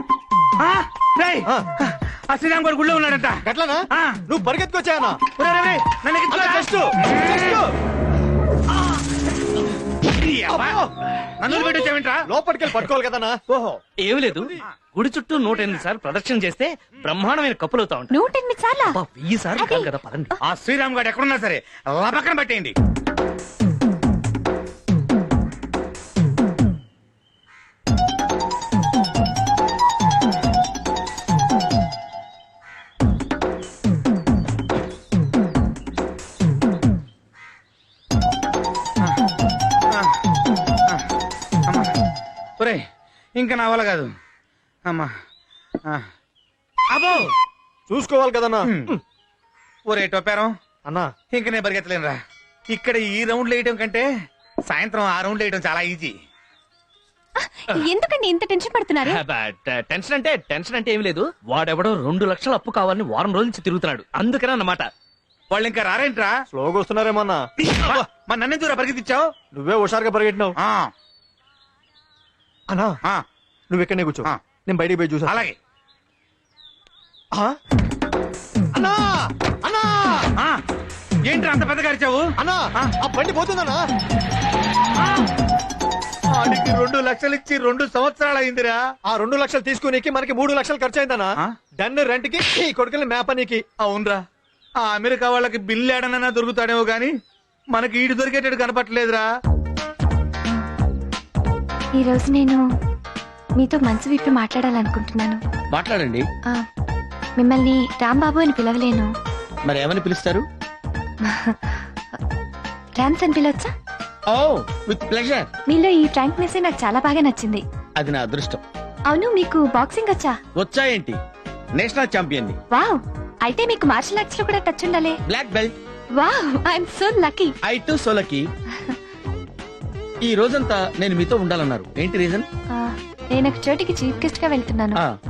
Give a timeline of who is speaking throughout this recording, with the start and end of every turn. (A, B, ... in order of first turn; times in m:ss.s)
0:00.6-0:03.4 A
0:03.5-0:05.2 B
0:03.9-0:04.2 A
0:05.4-0:07.6 A
0:06.3-0:07.7 B
0:10.1-0:10.8 A
0:10.5-0:10.9 B
0:11.4-0:12.2 A
0:11.5-0:12.0 C
0:12.3-0:13.4 B
0:13.5-0:13.8 A
0:14.0-0:18.1 D
0:18.1-0:19.0 C
0:18.9-0:20.3 D
0:19.6-0:19.9 C
0:20.4-0:22.7 A
0:43.4-0:44.1 A
0:46.9-0:47.3 A
0:47.9-0:49.0 B
0:48.7-0:48.9 A
0:49.9-0:50.5 A
0:50.9-0:51.1 B
0:51.3-0:52.2 A
0:52.7-0:54.0 A
0:54.7-0:56.1 A
0:57.4-0:59.2 C
0:59.0-1:04.9 D
1:05.5-1:06.3 A
1:06.5-1:07.4 B
1:07.6-1:09.3 A
1:09.5-1:10.6 B
1:10.6-1:10.9 A
1:13.7-1:15.5 B
1:15.3-1:15.5 A
1:18.7-1:20.3 B
1:21.2-1:22.2 A
1:22.4-1:23.8 B
1:26.3-1:28.8 A
1:29.1-1:33.6 B
1:33.8-1:34.2 A
1:34.8-1:37.1 A
1:37.7-1:39.2 A
1:42.0-1:42.6 C
1:43.6-1:45.4 C
1:45.7-1:46.2 E
1:47.4-1:49.1 C
1:49.6-1:50.4 E
1:51.3-1:51.8 C
1:53.0-1:53.7 C
1:54.3-1:55.5 E
1:55.7-1:57.6 C
1:58.0-1:58.6 E
1:59.1-2:00.4 C
2:00.6-2:01.2 E
2:01.8-2:02.6 E
2:02.7-2:05.2 C
2:05.3-2:05.7 E
2:06.2-2:07.5 C
2:07.6-2:08.5 E
2:10.2-2:12.5 E
2:12.7-2:15.0 C